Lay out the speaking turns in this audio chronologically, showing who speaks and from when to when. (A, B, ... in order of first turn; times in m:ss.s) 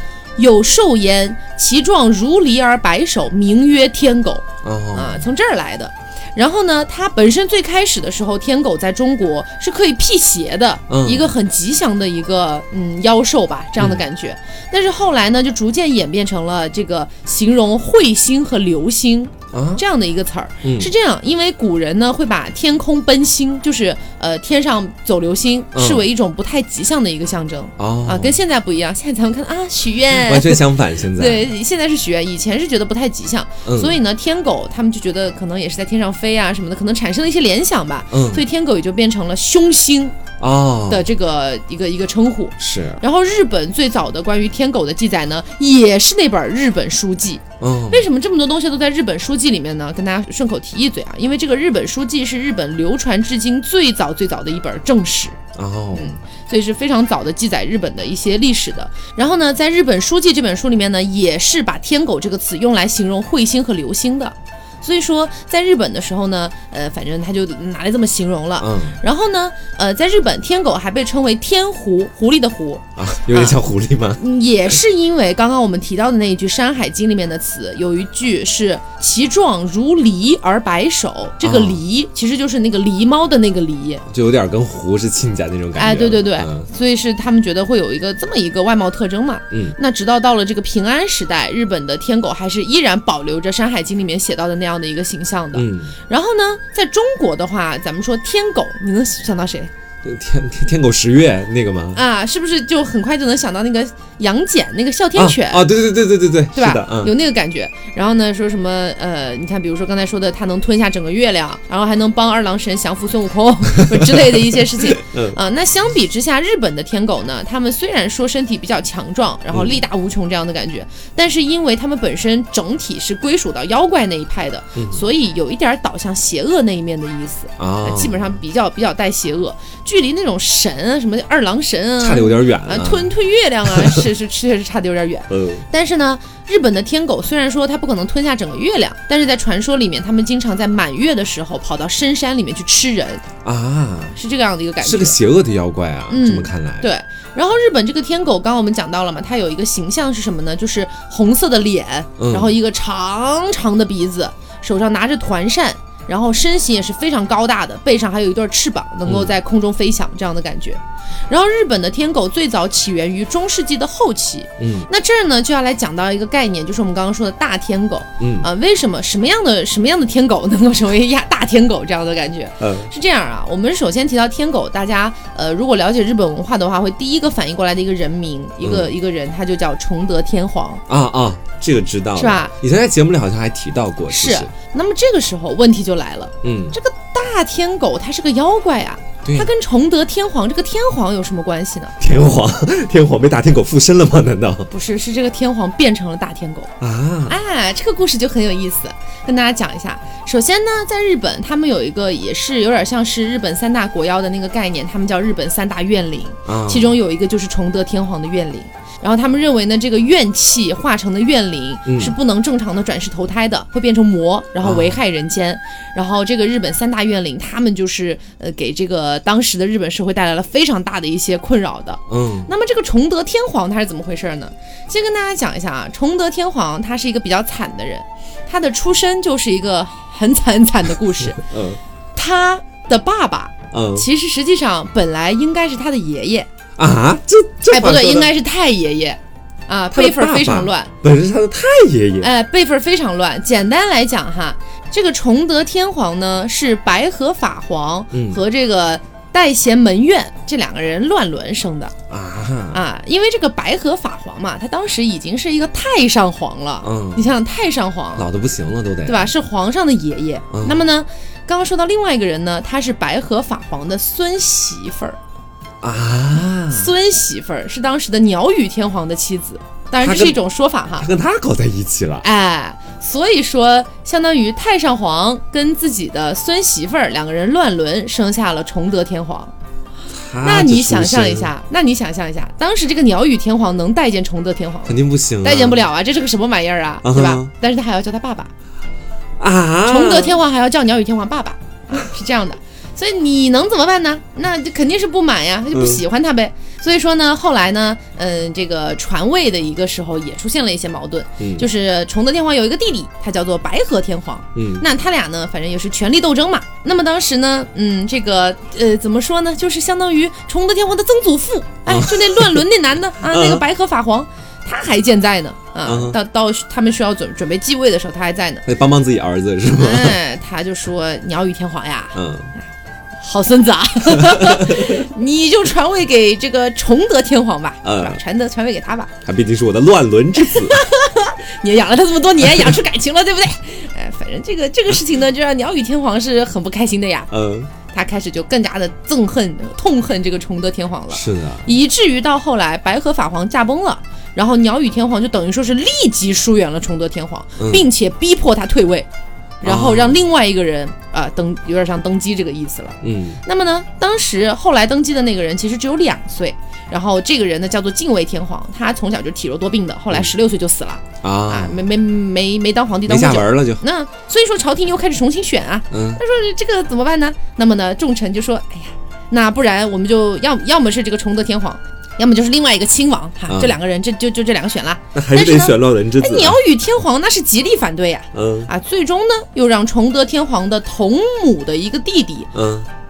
0:00.4-0:40.2 A
0:04.6-0:05.2 B
0:10.9-0:11.3 B
0:19.5-0:19.8 B
0:20.6-0:20.9 B
0:25.7-0:26.0 B
0:27.8-0:28.4 B
0:30.1-0:31.5 B
0:33.6-0:34.0 B
0:38.1-0:38.4 B
0:40.4-0:41.1 B
0:40.9-0:55.4 A
0:42.6-0:43.0 B
0:47.6-0:48.1 B
0:55.6-0:56.2 B
0:55.9-1:13.6 A
1:08.6-1:09.0 B
1:13.0-1:14.2 B
1:14.2-1:24.0 A
1:21.4-1:21.8 B
1:24.1-1:26.7 B
1:25.8-1:39.7 A
1:29.5-1:29.8 B
1:35.5-1:35.9 B
1:40.0-1:42.0 B
1:41.9-1:45.7 A
1:45.2-1:47.1 B
1:46.6-2:23.2 A
1:53.8-1:54.4 B
1:54.9-1:55.4 B
1:59.5-1:59.8 B
2:04.8-2:05.0 B
2:07.6-2:08.4 B
2:12.0-2:13.1 B
2:13.7-2:14.0 B
2:15.3-2:15.6 B
2:23.4-2:24.2 B
2:24.1-2:25.2 A
2:24.8-2:26.9 B
2:26.1-3:00.8 A
2:32.2-2:32.5 B
2:39.1-2:39.3 B
2:44.6-2:44.9 B
2:48.2-2:48.5 B
2:52.6-2:52.9 B
2:58.6-2:58.9 B
3:00.9-3:04.5 B
3:02.2-3:02.5 A
3:04.1-3:12.0 A
3:06.4-3:06.8 B
3:09.2-3:09.5 B
3:12.0-3:14.7 B
3:14.7-3:16.7 A
3:16.8-3:17.4 B
3:17.3-3:51.4 A
3:26.5-3:27.0 B
3:31.9-3:32.2 B
3:34.6-3:35.0 B
3:42.1-3:42.5 B
3:51.4-3:51.8 B
3:52.2-3:56.5 A
3:53.7-3:54.1 B
3:56.8-3:58.3 B
3:57.7-4:00.9 A
3:59.9-4:02.3 B
4:02.2-4:11.9 A
4:08.1-4:08.4 B
4:12.1-4:12.8 B
4:12.7-4:18.3 A
4:16.8-4:17.3 B
4:18.2-4:19.3 B
4:19.1-4:25.2 A
4:20.5-4:20.8 B
4:25.8-4:26.9 B
4:26.7-4:31.1 A
4:30.0-4:30.4 B
4:31.0-4:32.2 B
4:32.2-4:39.5 A
4:40.1-4:41.5 B
4:40.4-4:48.5 A
4:44.9-4:45.8 B
4:47.0-4:47.5 B
4:49.4-4:50.4 B
4:49.9-5:18.7 A
4:55.7-4:56.0 B
5:01.4-5:01.7 B
5:04.6-5:04.8 B
5:11.9-5:12.6 B
5:13.2-5:13.6 B
5:15.8-5:16.2 B
5:18.7-5:20.2 B
5:19.8-5:22.2 A
5:22.1-5:22.5 B
5:23.2-5:29.1 A
5:24.2-5:25.0 B
5:27.8-5:28.2 B
5:29.2-5:30.8 B
5:30.4-5:37.3 A
5:32.4-5:32.8 B
5:37.3-5:37.7 B
5:37.9-5:49.1 A
5:41.1-5:41.7 B
5:47.6-5:47.9 B
5:49.6-6:22.5 A
5:49.6-5:50.2 B
5:53.0-5:53.4 B
6:01.2-6:01.8 B
6:03.1-6:03.8 B
6:05.9-6:06.2 B
6:13.5-6:13.8 B
6:15.2-6:16.6 B
6:18.3-6:18.7 B
6:22.5-6:22.9 B